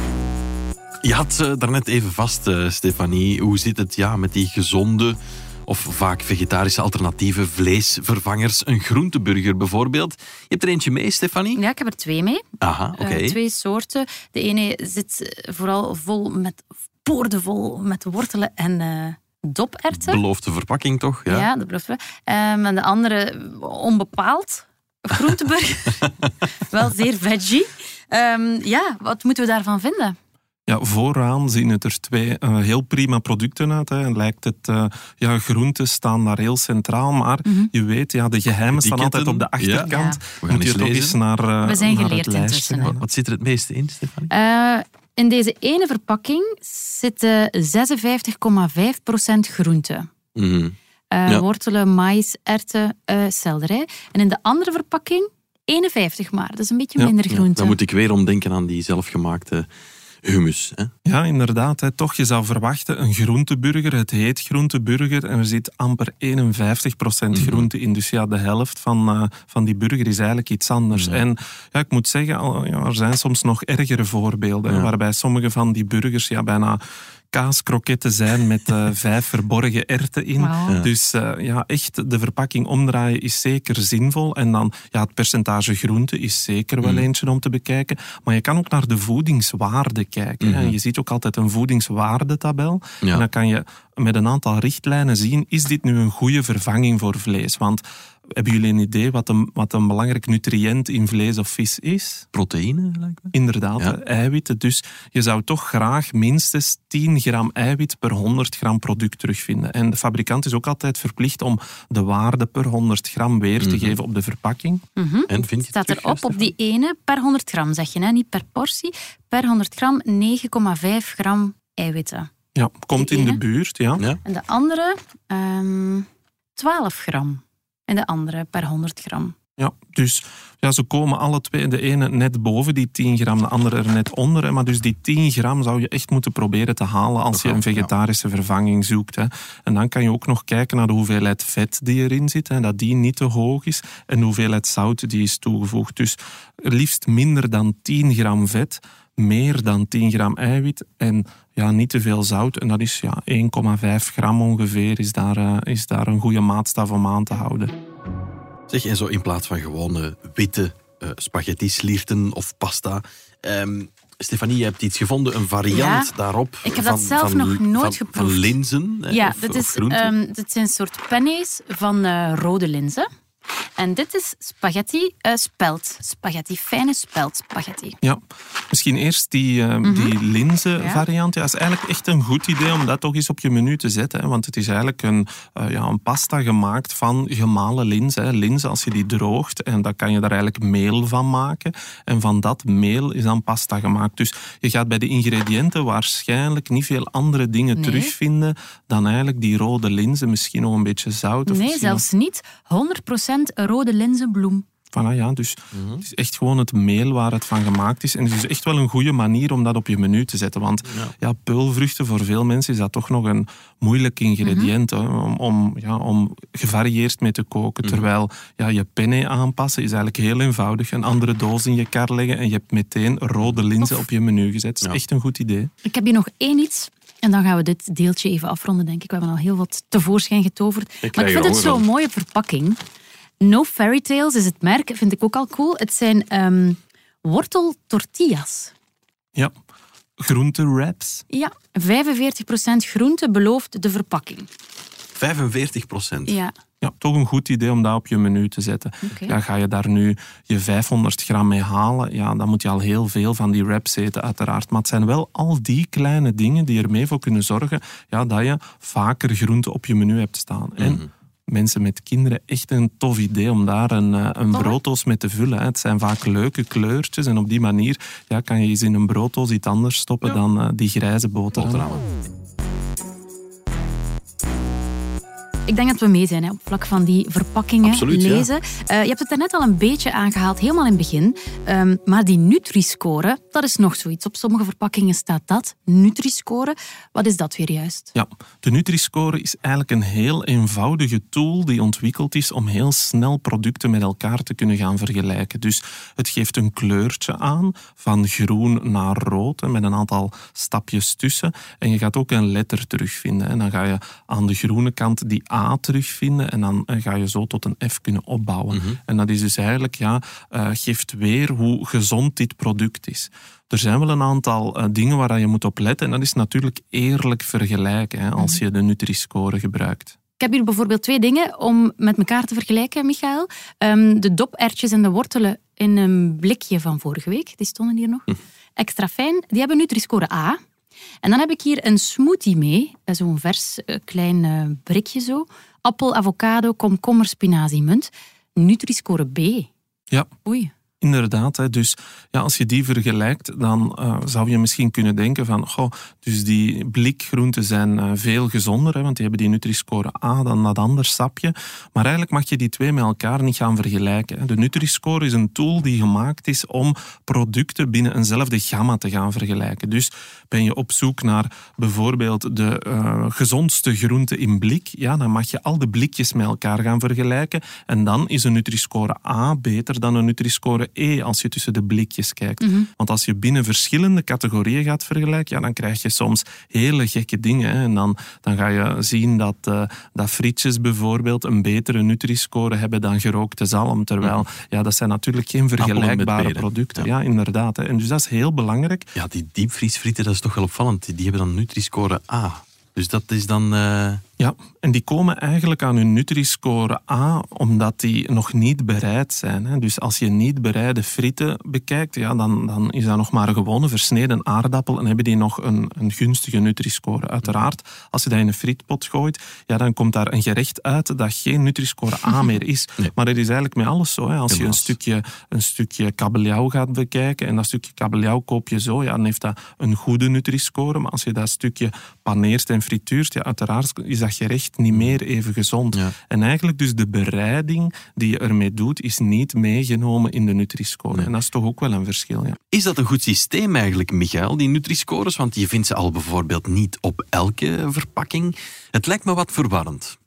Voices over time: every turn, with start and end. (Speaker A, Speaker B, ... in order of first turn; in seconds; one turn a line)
Speaker A: 1.0-11.6
Speaker B: 11.5-12.4
Speaker A: 12.6-13.4
Speaker B: 12.9-20.2
Speaker A: 19.9-21.5
Speaker B: 21.3-30.1
Speaker C: 30.7-43.0
Speaker B: 37.4-37.7
Speaker A: 38.7-41.2
Speaker B: 39.7-40.2
Speaker B: 41.6-43.0
Speaker A: 42.8-44.3
Speaker B: 44.3-50.1
Speaker A: 50.3-50.8
Speaker B: 51.1-57.8
Speaker A: 57.3-59.7
Speaker A: 60.2-60.9
Speaker C: 61.0-102.2
Speaker A: 67.3-67.7
Speaker A: 70.9-71.2
Speaker B: 80.4-80.8
Speaker A: 86.8-87.1
Speaker A: 90.4-90.8
Speaker A: 102.3-104.0
Speaker C: 103.3-114.8
Speaker A: 113.6-114.0
Speaker B: 115.0-122.3
Speaker A: 115.3-116.5
Speaker C: 122.5-124.0
Speaker B: 123.0-123.4
Speaker B: 124.2-129.3
Speaker C: 129.6-157.7
Speaker A: 137.3-137.9
Speaker A: 158.7-170.1
Speaker B: 165.7-166.1
Speaker B: 166.6-168.6
Speaker B: 169.1-173.1
Speaker B: 173.8-178.0
Speaker C: 178.0-202.1
Speaker B: 179.8-180.1
Speaker B: 180.8-181.0
Speaker B: 197.8-198.1
Speaker B: 201.5-204.6
Speaker C: 204.9-225.7
Speaker A: 205.7-206.0
Speaker A: 210.9-211.1
Speaker B: 214.4-214.7
Speaker B: 225.8-232.8
Speaker A: 231.0-231.8
Speaker B: 233.4-238.7
Speaker C: 240.2-241.2
Speaker B: 241.3-244.5
Speaker A: 245.2-246.4
Speaker B: 246.3-246.5
Speaker C: 246.8-271.9
Speaker B: 249.1-249.3
Speaker A: 260.8-261.1
Speaker A: 271.5-272.1
Speaker B: 275.7-288.1
Speaker A: 277.8-278.5
Speaker C: 288.1-320.1
Speaker A: 308.7-309.0
Speaker B: 320.4-330.6
Speaker B: 331.2-339.7
Speaker B: 340.4-340.7
Speaker C: 341.0-389.1
Speaker B: 372.6-372.9
Speaker A: 385.8-387.1
Speaker A: 389.1-394.2
Speaker C: 394.4-432.6
Speaker A: 414.5-414.9
Speaker A: 424.9-425.2
Speaker A: 432.7-440.2